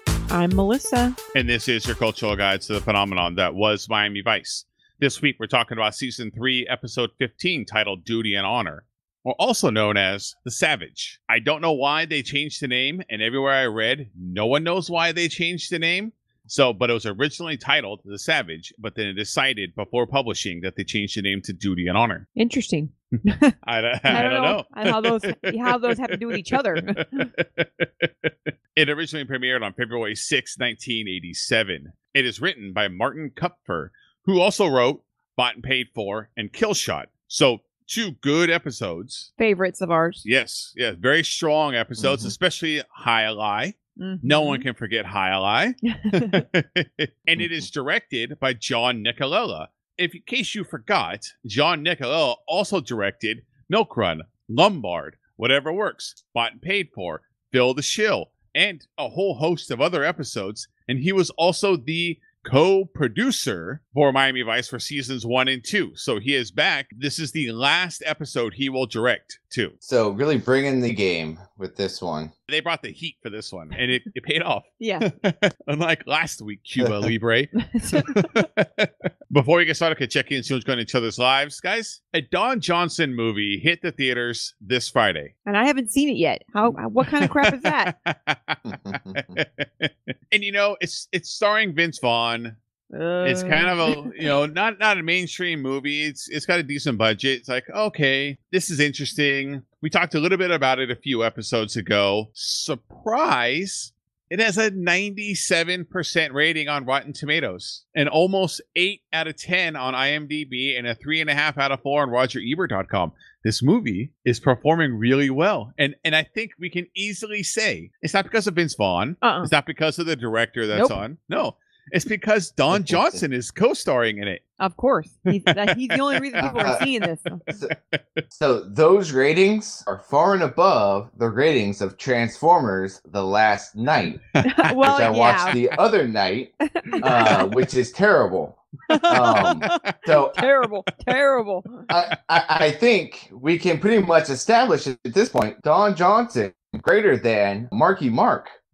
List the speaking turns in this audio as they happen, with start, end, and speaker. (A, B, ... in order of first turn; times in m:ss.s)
0:00.3-0:01.2 A
0:01.3-0:22.3 B
0:22.4-0:23.6 A
0:23.6-0:39.3 B
0:24.1-0:27.3 A
0:39.4-0:40.2 A
0:40.2-1:09.7 B
0:42.0-0:42.3 C
0:44.0-0:44.6 A
0:45.9-0:46.5 A
1:09.8-1:12.3 C
1:12.5-1:25.3 B
1:14.8-1:15.1 A
1:16.8-1:17.1 C
1:17.7-1:18.5 A
1:25.5-1:27.9 A
1:27.0-1:32.6 B
1:28.6-1:29.4 C
1:32.9-1:34.3 A
1:33.2-2:04.4 B
1:59.2-1:59.5 A
2:02.7-2:03.2 C
2:04.6-2:07.4 A
2:05.3-2:06.4 B
2:06.4-2:06.9 C
2:07.7-2:08.2 B
2:08.3-2:14.2 C
2:14.4-2:15.6 A
2:14.8-2:20.4 C
2:16.8-2:17.5 A
2:18.9-2:21.9 A
2:18.9-2:20.4 B
2:21.9-2:28.5 C